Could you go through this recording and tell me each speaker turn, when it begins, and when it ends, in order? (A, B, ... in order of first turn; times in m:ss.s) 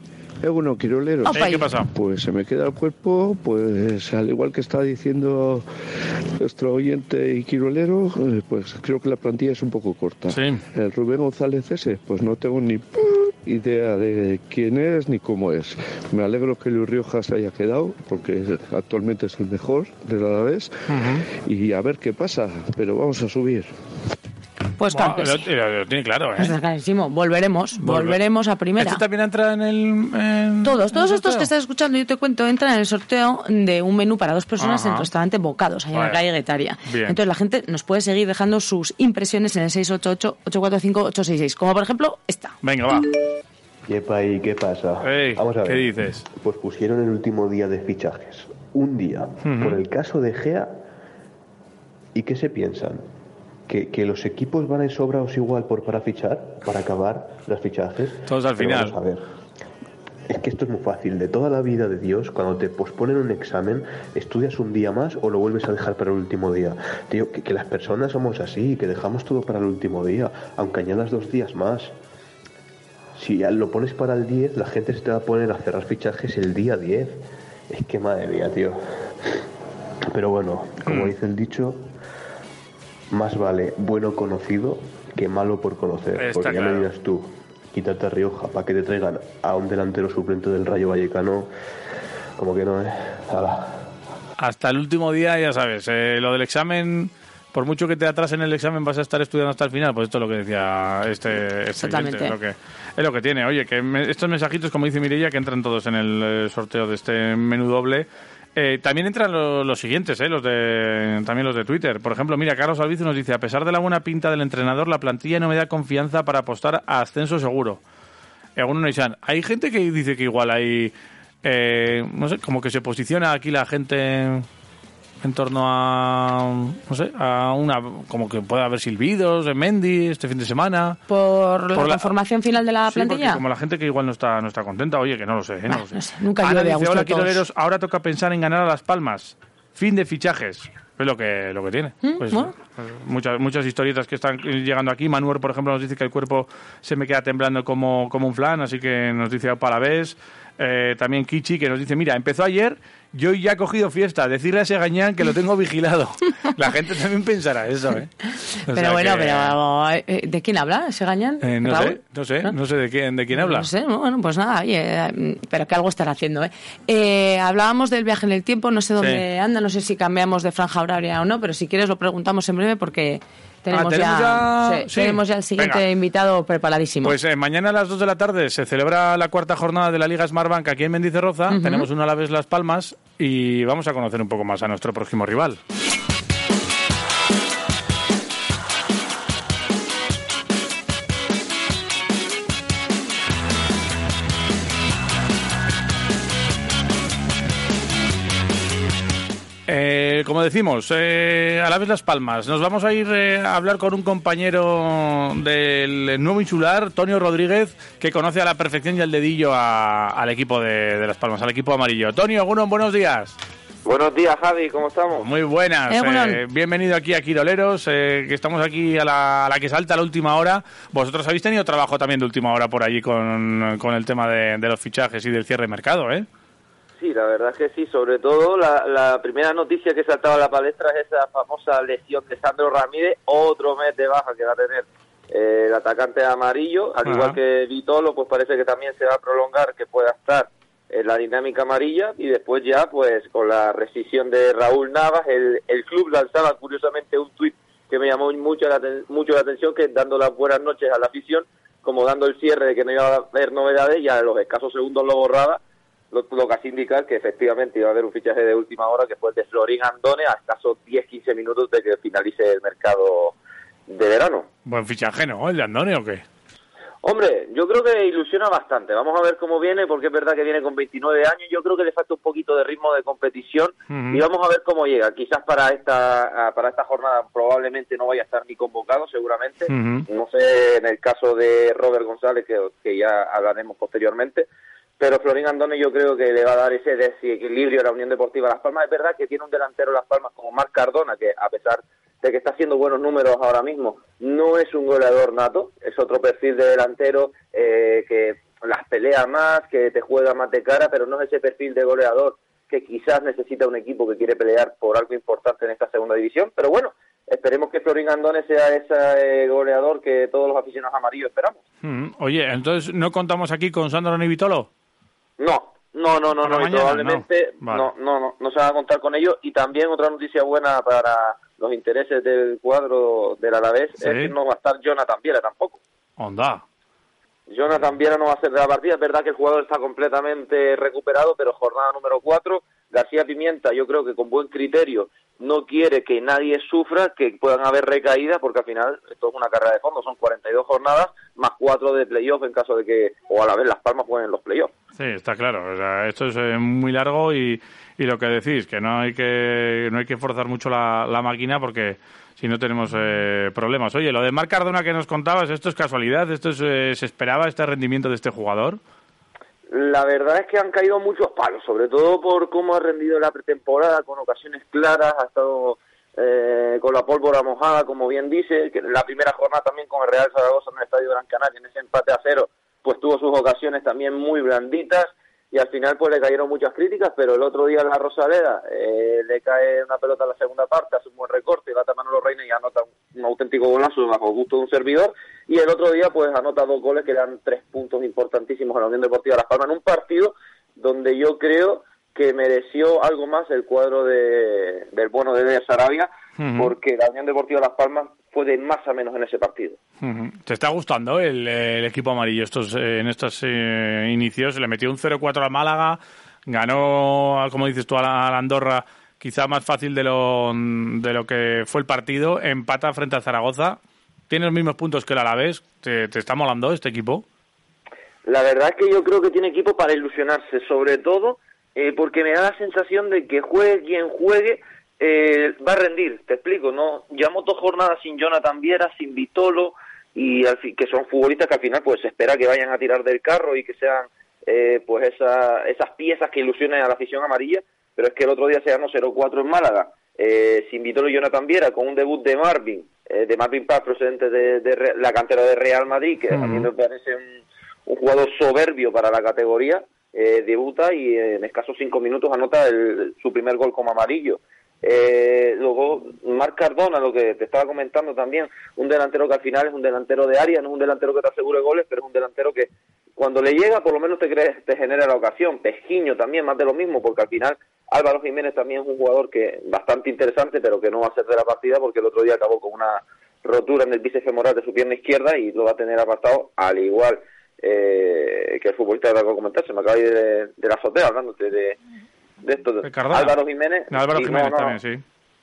0:00.4-0:01.3 A
0:01.2-0:01.7 B
0:01.3-0:01.9 C
0:01.9-0:05.6 A
0:06.4-0:12.9 A
0:10.3-0:10.6 C
0:13.4-0:23.7 A
0:20.9-0:21.3 C
0:24.8-0:25.5 B
0:24.9-0:26.6 C
0:26.4-0:29.0 B
0:27.8-0:28.2 C
0:28.8-0:31.5 C
0:30.6-0:42.6 B
0:34.6-0:35.1 C
0:35.9-0:36.2 C
0:36.8-0:37.2 C
0:42.6-0:43.0 C
0:43.9-0:50.8 D
0:45.0-0:46.2 C
0:49.4-0:49.8 C
0:52.2-0:53.1 D
0:53.7-0:59.2 D
0:58.3-0:59.0 C
1:00.3-1:11.9 D
1:13.2-1:18.8 D
1:20.1-1:21.9 D
1:20.9-1:21.1 C
1:23.1-1:31.5 D
1:26.2-1:26.9 C
1:32.4-1:33.9 D
1:34.4-1:57.8 C
1:41.8-1:42.4 B
1:58.6-2:00.9 C
2:01.4-2:04.5 C
2:05.2-2:11.0 C
2:11.1-2:13.4 B
2:11.8-2:12.1 C
2:12.9-2:38.1 C
2:15.7-2:17.4 B
2:22.0-2:22.5 B
2:38.7-2:39.5 C
2:38.7-2:42.6 B
2:41.4-2:43.7 C
2:43.3-2:57.2 B
2:49.0-2:49.2 C
2:53.7-2:55.8 C
2:57.0-3:05.6 C
3:01.5-3:01.9 B
3:19.7-3:33.4 C
3:33.8-3:35.2 E
3:35.1-3:46.3 C
3:35.9-3:36.4 B
3:47.0-4:15.6 E
3:57.0-3:57.4 C
4:16.1-4:23.4 E
4:23.9-4:24.5 E
4:24.7-4:26.2 C
4:27.0-4:44.5 E
4:33.9-4:34.2 C
4:39.7-4:40.1 C
4:45.0-5:11.6 E
5:11.8-5:14.7 C
5:15.4-5:25.8 E
5:16.4-5:17.9 C
5:24.0-5:24.4 C
5:26.2-5:26.6 C
5:27.5-5:44.7 E
5:45.0-5:58.8 C
5:59.7-6:39.8 E
6:36.4-6:36.7 C
6:40.0-6:57.2 C
6:58.3-8:01.8 E
7:26.3-7:26.7 C
8:02.4-8:04.8 E
8:02.8-8:03.4 C
8:03.9-8:05.0 C